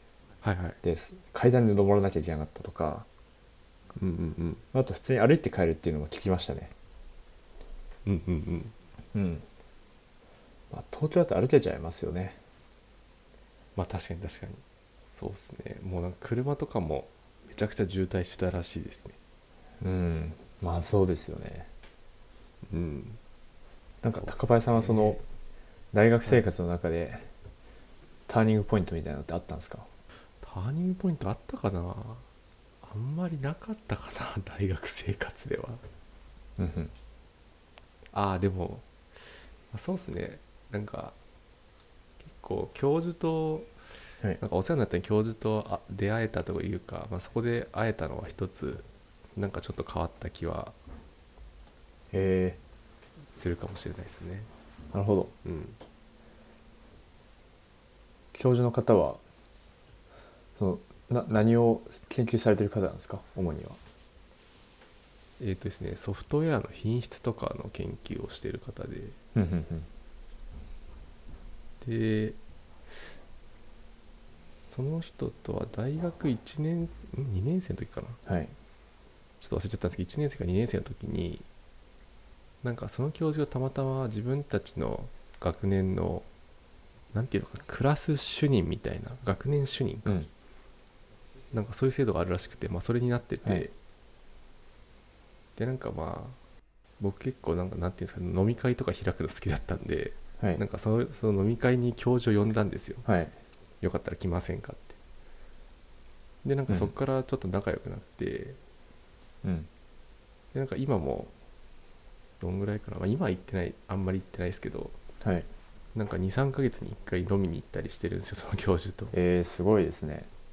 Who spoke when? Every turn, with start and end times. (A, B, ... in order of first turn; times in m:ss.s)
0:00.4-0:00.8 A
0:00.8-0:03.1 B
0:04.0-0:04.6 A
0:04.7-0:06.7 B
0:08.1-0:08.8 A
0:09.1-0:09.4 B
0:10.7-0:12.4 B
0:13.8-0:19.2 A
0:19.8-0:21.7 B
0:22.7-0:23.2 A
0:24.0-0:25.2 A
0:24.0-0:25.2 B
0:25.9-0:27.3 B
0:28.3-0:29.9 B
0:30.4-0:32.3 A
0:32.8-0:35.8 A
0:36.6-0:36.9 B
0:38.1-0:38.9 A
0:39.7-0:41.2 A
0:42.2-0:43.7 A
0:44.4-0:48.8 A
0:49.4-0:50.8 A
0:52.1-0:52.6 B
0:53.3-0:54.5 A
0:54.9-0:55.3 B
0:55.4-0:55.8 A
0:58.3-0:59.2 B
1:00.6-1:03.8 B
1:05.4-1:09.2 A
1:09.3-1:09.9 B
1:11.8-1:12.4 A
1:14.7-1:18.2 A
1:18.3-1:18.5 B
1:19.4-1:21.5 A
1:22.6-1:26.3 A
1:27.1-1:30.3 A
1:31.5-1:33.7 A
1:33.4-1:33.7 B
1:35.6-1:36.4 A
1:37.0-1:43.1 A
1:43.1-1:43.3 B
1:43.8-1:45.0 A
1:46.4-1:48.6 A
1:49.4-1:49.7 B
1:50.5-1:51.3 A
1:52.4-1:55.0 A
1:55.2-1:55.5 B
1:56.0-1:59.2 A
1:59.1-2:00.3 B